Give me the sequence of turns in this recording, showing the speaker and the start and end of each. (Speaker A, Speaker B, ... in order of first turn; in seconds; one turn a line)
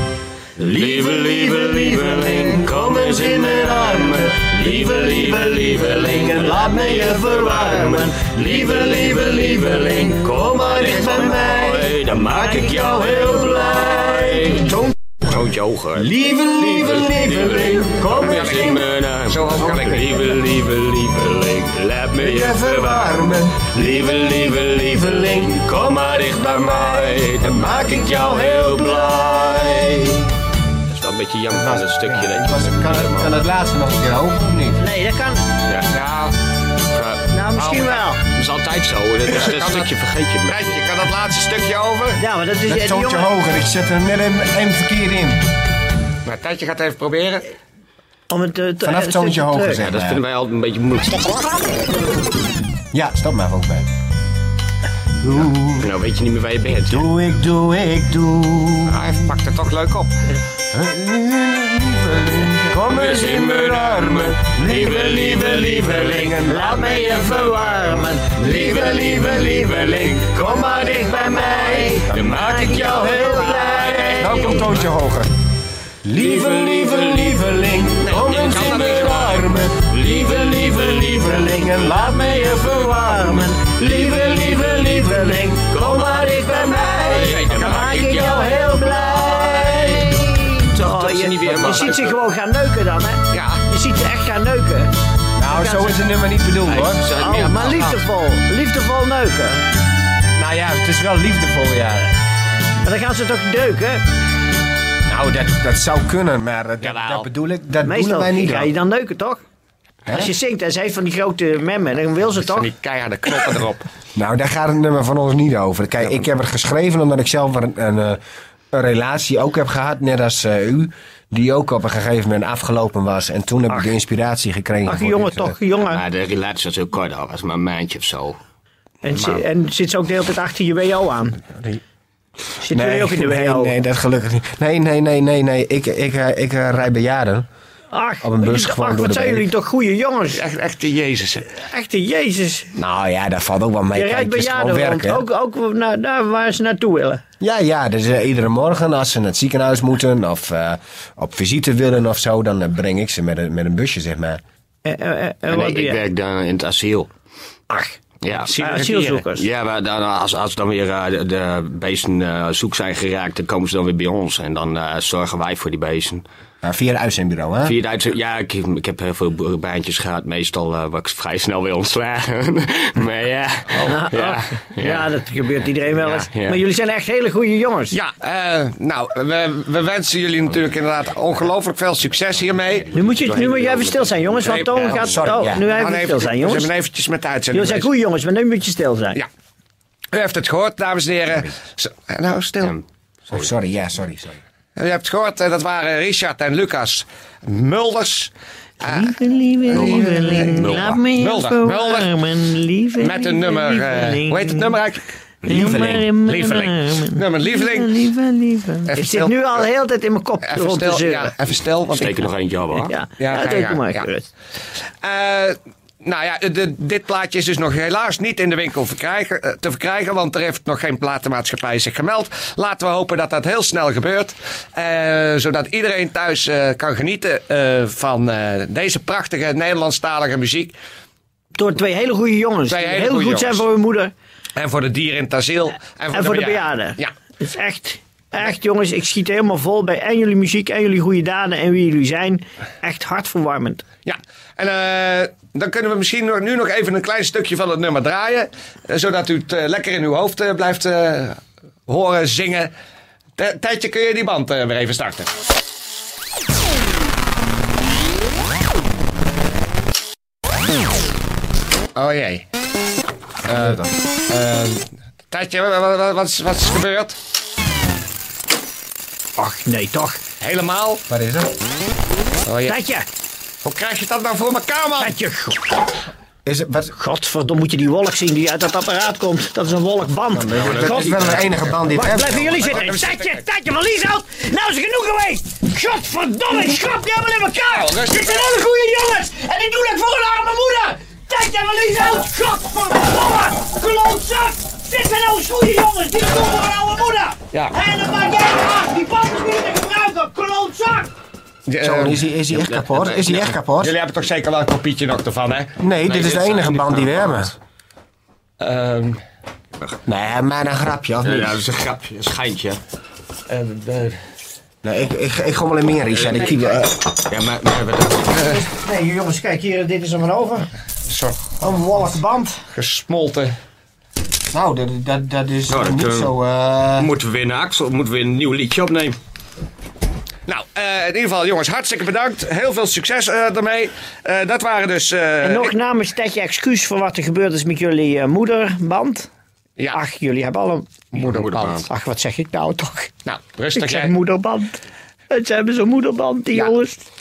Speaker A: 0.6-14.8
Speaker B: 0.6-16.1
Speaker A: 15.9-18.8
Speaker B: 16.6-29.7
Speaker C: 18.2-20.1
Speaker A: 22.1-30.4
Speaker B: 30.8-33.4
Speaker A: 31.5-34.8
Speaker D: 34.8-35.4
Speaker C: 35.9-36.4
Speaker B: 36.9-37.3
Speaker D: 37.3-38.2
Speaker C: 37.5-38.0
Speaker B: 38.2-40.9
Speaker C: 39.3-39.9
Speaker C: 40.5-42.2
Speaker D: 42.2-43.3
Speaker A: 42.6-45.4
Speaker C: 46.2-47.5
Speaker D: 48.3-49.8
Speaker A: 48.8-50.2
Speaker B: 49.8-51.6
Speaker A: 52.9-53.9
Speaker A: 55.2-55.9
Speaker B: 55.8-57.0
Speaker A: 56.9-59.1
Speaker C: 58.9-60.1
Speaker A: 60.7-66.7
Speaker B: 62.7-74.7
Speaker D: 66.4-68.6
Speaker A: 68.4-69.8
Speaker D: 70.5-74.5
Speaker A: 71.3-72.8
Speaker A: 74.1-75.3
Speaker A: 76.0-87.0
Speaker B: 76.1-92.2
Speaker C: 78.0-79.0
Speaker D: 82.8-83.6
Speaker D: 87.0-94.9
Speaker C: 87.2-88.2
Speaker A: 88.2-90.2
Speaker C: 93.3-93.6
Speaker A: 95.3-97.1
Speaker D: 95.5-96.0
Speaker B: 96.7-98.0
Speaker D: 97.2-99.7
Speaker A: 100.3-102.1
Speaker D: 102.8-104.0
Speaker A: 105.0-108.7
Speaker C: 106.8-107.3
Speaker D: 107.8-109.4
Speaker A: 110.0-110.3
Speaker D: 110.1-112.7
Speaker C: 112.4-113.8
Speaker A: 114.2-125.5
Speaker D: 124.8-126.0
Speaker B: 125.9-128.4
Speaker D: 129.0-131.4
Speaker D: 132.6-133.8
Speaker A: 132.7-137.5
Speaker D: 137.9-140.4
Speaker A: 138.2-139.4
Speaker C: 140.3-141.5
Speaker D: 141.5-142.7
Speaker A: 142.8-145.2
Speaker D: 143.9-147.2
Speaker A: 147.4-154.4
Speaker D: 154.8-156.0
Speaker B: 155.5-157.1
Speaker D: 157.7-158.0
Speaker B: 158.2-166.2
Speaker C: 158.4-159.2
Speaker D: 158.5-159.4
Speaker A: 166.6-167.8
Speaker B: 167.6-175.1
Speaker D: 173.8-178.0
Speaker B: 176.0-176.6
Speaker C: 177.9-183.0
Speaker B: 182.9-185.0
Speaker D: 182.9-186.7
Speaker C: 184.4-187.9
Speaker A: 185.1-185.6
Speaker D: 187.5-189.2
Speaker C: 190.1-192.8
Speaker A: 193.3-194.4
Speaker C: 194.8-199.2
Speaker D: 198.8-204.7
Speaker C: 199.7-202.1
Speaker B: 200.5-201.0
Speaker C: 203.0-205.7
Speaker B: 205.4-206.1
Speaker D: 205.4-211.3
Speaker C: 206.2-208.1
Speaker C: 208.8-209.7
Speaker C: 210.4-212.3
Speaker B: 211.9-212.9
Speaker D: 212.8-214.3
Speaker C: 213.2-214.1
Speaker C: 215.0-230.7
Speaker D: 231.5-234.1
Speaker C: 232.7-233.6
Speaker C: 234.6-237.1
Speaker D: 236.1-243.8
Speaker C: 244.0-252.7
Speaker C: 253.4-255.3
Speaker C: 261.9-262.4
Speaker C: 263.5-267.1
Speaker A: 263.5-263.9
Speaker D: 269.4-270.2
Speaker C: 270.4-271.0
Speaker A: 271.1-271.6
Speaker C: 272.5-272.7
Speaker D: 272.7-273.1
Speaker C: 273.6-275.1
Speaker D: 275.0-275.8
Speaker A: 276.4-276.9
Speaker D: 276.9-301.1
Speaker A: 280.3-282.7
Speaker B: 280.6-281.6
Speaker C: 282.6-283.4
Speaker C: 287.7-288.5
Speaker C: 301.7-302.2
Speaker A: 301.8-303.9
Speaker C: 303.0-307.5
Speaker A: 305.8-307.5
Speaker C: 308.6-309.2
Speaker A: 310.1-311.6
Speaker B: 311.2-312.8
Speaker C: 313.5-314.2
Speaker A: 314.8-317.0
Speaker B: 317.2-318.4
Speaker D: 318.3-320.7
Speaker C: 321.1-321.5
Speaker D: 321.6-322.6
Speaker C: 322.7-323.6
Speaker A: 324.5-327.1
Speaker B: 325.7-326.3
Speaker B: 327.0-329.2
Speaker C: 330.5-335.7
Speaker D: 335.4-339.3
Speaker D: 339.9-340.9
Speaker C: 341.1-341.9
Speaker B: 341.1-341.9
Speaker D: 341.9-343.1
Speaker C: 343.2-344.1
Speaker D: 343.7-347.0